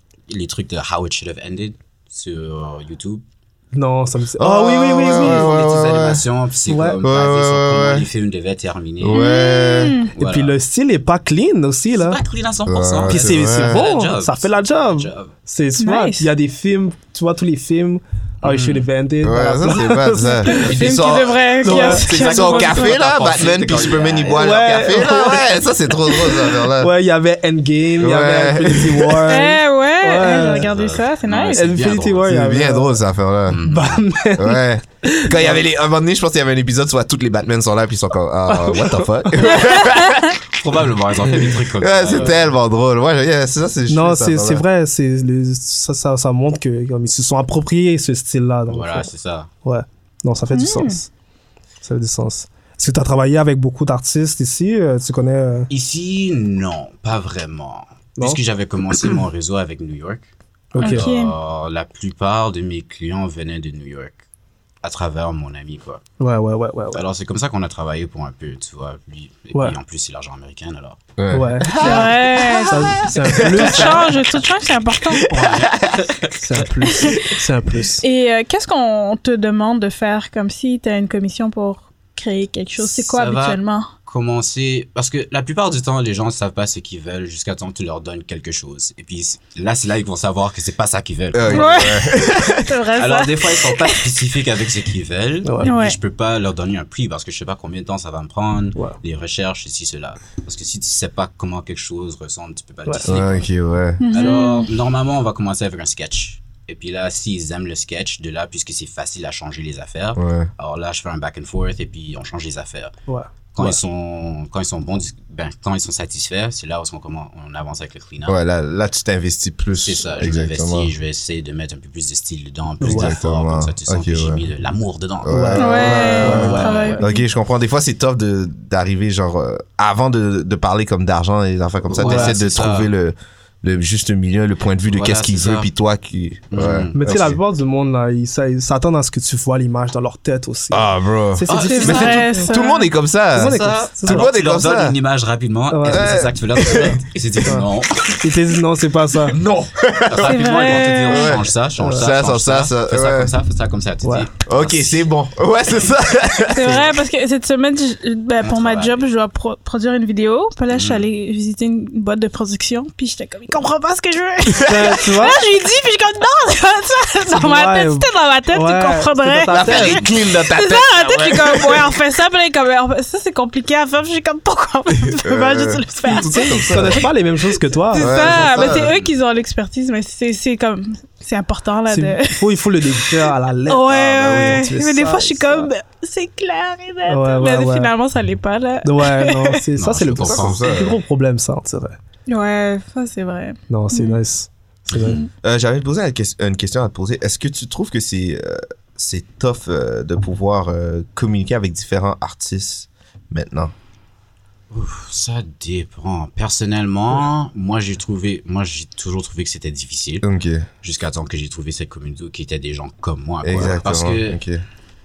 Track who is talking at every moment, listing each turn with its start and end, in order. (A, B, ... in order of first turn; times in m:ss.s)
0:00.3-0:03.2 A
0:03.7-0:05.6 B
0:04.4-0:06.2 C
0:05.1-0:09.4 A
0:06.7-0:07.0 B
0:07.0-0:08.1 C
0:09.0-0:10.1 C
0:09.1-0:10.1 D
0:10.1-0:10.5 A
0:10.2-0:12.2 B
0:11.9-0:15.3 A
0:12.7-0:13.8 C
0:13.1-0:20.7 B
0:15.8-0:16.3 D
0:18.4-0:18.8 A
0:19.2-0:26.9 C
0:20.5-0:23.0 D
0:20.6-0:25.0 A
0:21.6-0:22.0 B
0:24.3-0:25.6 B
0:26.1-0:30.7 B
0:28.0-0:29.2 C
0:29.3-0:31.7 D
0:30.4-0:32.4 A
0:31.5-0:33.0 B
0:32.3-0:33.6 C
0:33.5-0:34.1 A
0:33.6-0:35.6 B
0:34.4-0:44.6 C
0:38.5-0:39.3 B
0:40.6-0:42.5 A
0:43.9-0:49.1 B
0:48.7-0:49.5 A
0:49.6-0:51.1 B
0:50.5-0:51.0 D
0:51.8-0:55.7 B
0:55.7-1:04.2 A
1:00.7-1:01.1 B
1:00.8-1:01.4 D
1:04.8-1:06.0 A
1:06.2-1:07.0 B
1:06.9-1:11.0 A
1:11.2-1:14.3 C
1:11.3-1:12.1 B
1:11.8-1:15.3 D
1:12.7-1:14.0 B
1:14.9-1:16.0 C
1:15.3-1:16.6 A
1:16.4-1:18.0 B
1:16.9-1:17.2 D
1:18.0-1:23.9 D
1:22.8-1:32.0 A
1:31.3-1:32.9 C
1:31.5-1:33.9 D
1:33.0-1:43.5 A
1:35.4-1:35.7 B
1:35.6-1:36.0 D
1:43.0-1:44.0 C
1:44.0-1:44.7 D
1:44.1-1:52.9 A
1:50.2-1:50.5 C
1:53.1-1:53.8 B
1:53.5-1:58.4 A
1:58.2-2:00.9 C
1:59.8-2:07.0 A
2:02.8-2:03.2 B
2:02.8-2:04.4 C
2:05.2-2:17.4 C
2:05.3-2:07.0 B
2:05.6-2:07.2 D
2:11.9-2:12.9 A
2:12.0-2:12.4 B
2:14.9-2:15.7 A
2:16.5-2:17.4 A
2:16.9-2:22.5 B
2:20.7-2:25.0 C
2:21.5-2:22.3 A
2:21.6-2:22.9 D
2:23.3-2:24.3 B
2:23.4-2:28.3 A
2:25.7-2:26.2 B
2:25.9-2:27.0 C
2:28.2-2:29.4 B
2:29.3-2:33.3 C
2:29.3-2:35.0 A
2:30.2-2:31.4 D
2:34.5-2:36.9 C
2:36.5-2:57.0 D
2:38.4-2:39.1 A
2:40.7-2:41.1 A
2:44.4-2:45.0 C
2:44.6-2:45.4 B
2:47.3-2:50.0 B
2:49.5-2:51.9 C
2:55.2-2:57.1 C
2:56.2-2:58.7 B
2:57.9-3:02.4 D
2:58.0-2:59.0 C
2:58.6-2:59.1 A
3:01.9-3:05.7 B
3:03.7-3:09.6 D
3:03.9-3:04.7 C
3:07.1-3:07.9 B
3:08.8-3:12.0 B
3:09.8-3:10.7 A
3:10.2-3:11.0 C
3:12.3-3:14.2 D
3:13.7-3:15.2 B
3:14.9-3:15.3 A
3:15.4-3:23.7 C
3:24.7-3:30.3 A
3:30.2-3:30.7 C
3:30.8-3:34.4 A
3:33.4-3:34.6 C